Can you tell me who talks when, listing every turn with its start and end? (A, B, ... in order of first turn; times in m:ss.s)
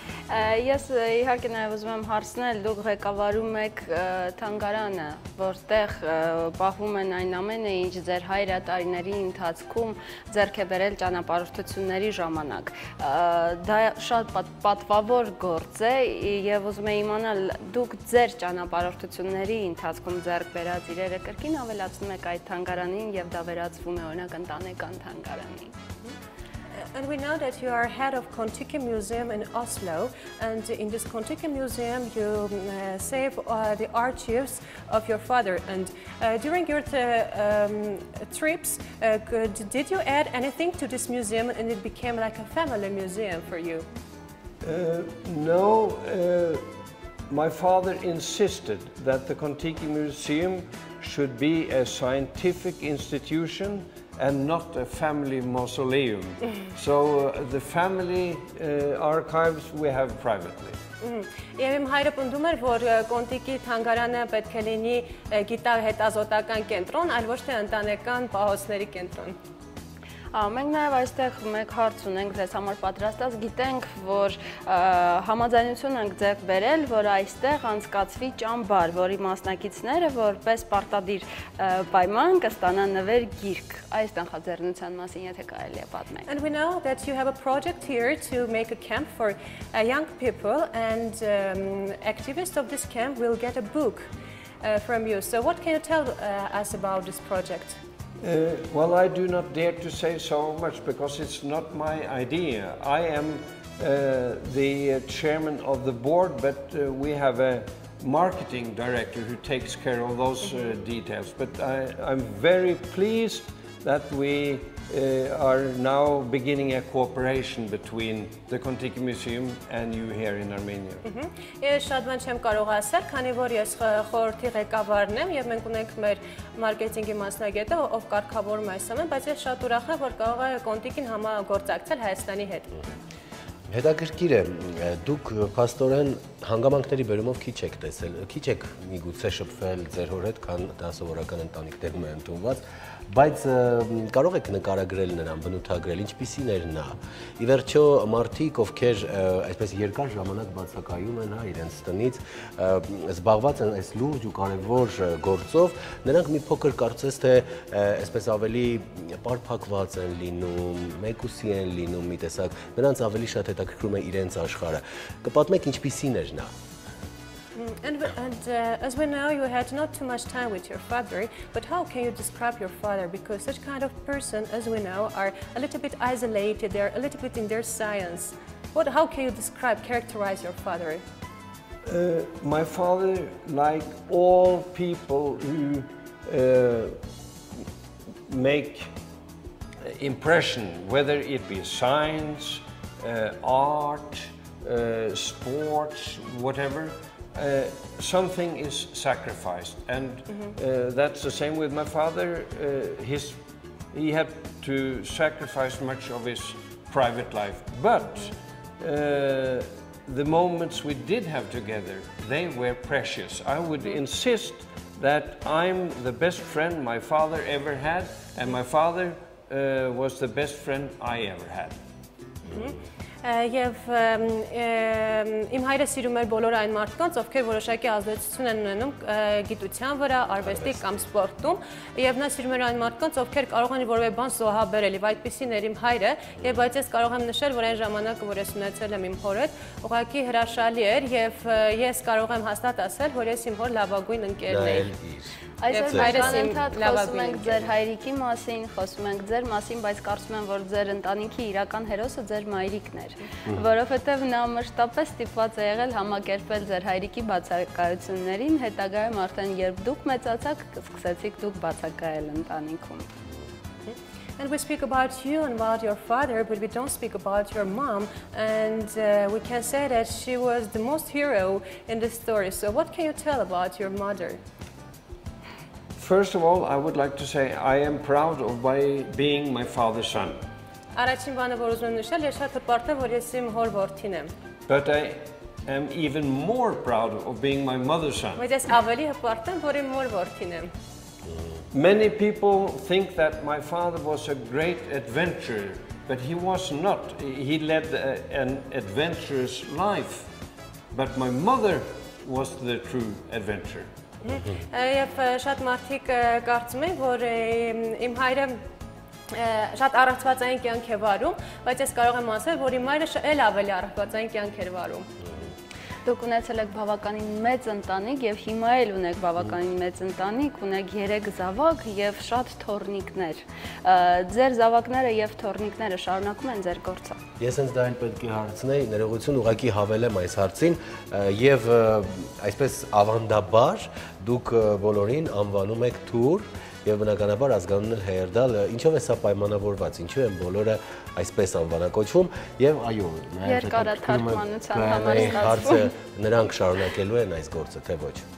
0:00.3-0:25.7 A
0:26.9-0:43.9 B
0:44.6-0:46.6 C
0:47.3-1:00.8 C
1:01.0-1:09.4 B
1:10.3-1:26.3 A
1:26.3-1:34.1 B
1:34.6-1:37.8 B
1:38.2-2:01.0 C
2:01.0-2:12.7 B
2:13.7-2:46.5 D
2:47.6-3:01.0 B
3:01.9-3:07.0 C
3:08.3-3:08.9 C
3:09.9-3:23.4 C
3:23.9-3:41.8 C
3:42.5-4:04.9 B
3:50.4-3:51.0 D
4:04.5-4:05.4 D
4:05.6-4:23.1 A
4:05.7-4:07.7 B
4:05.9-4:06.6 D
4:23.9-4:34.4 B
4:36.0-4:40.4 C
4:40.9-4:44.3 B
4:44.7-4:48.5 C
4:48.4-4:50.7 B
4:51.7-5:00.3 C
5:00.9-5:03.9 C
5:04.2-5:08.6 B
5:09.3-5:15.1 B
5:16.0-5:27.2 A
5:27.4-5:48.2 D
5:43.4-5:45.9 A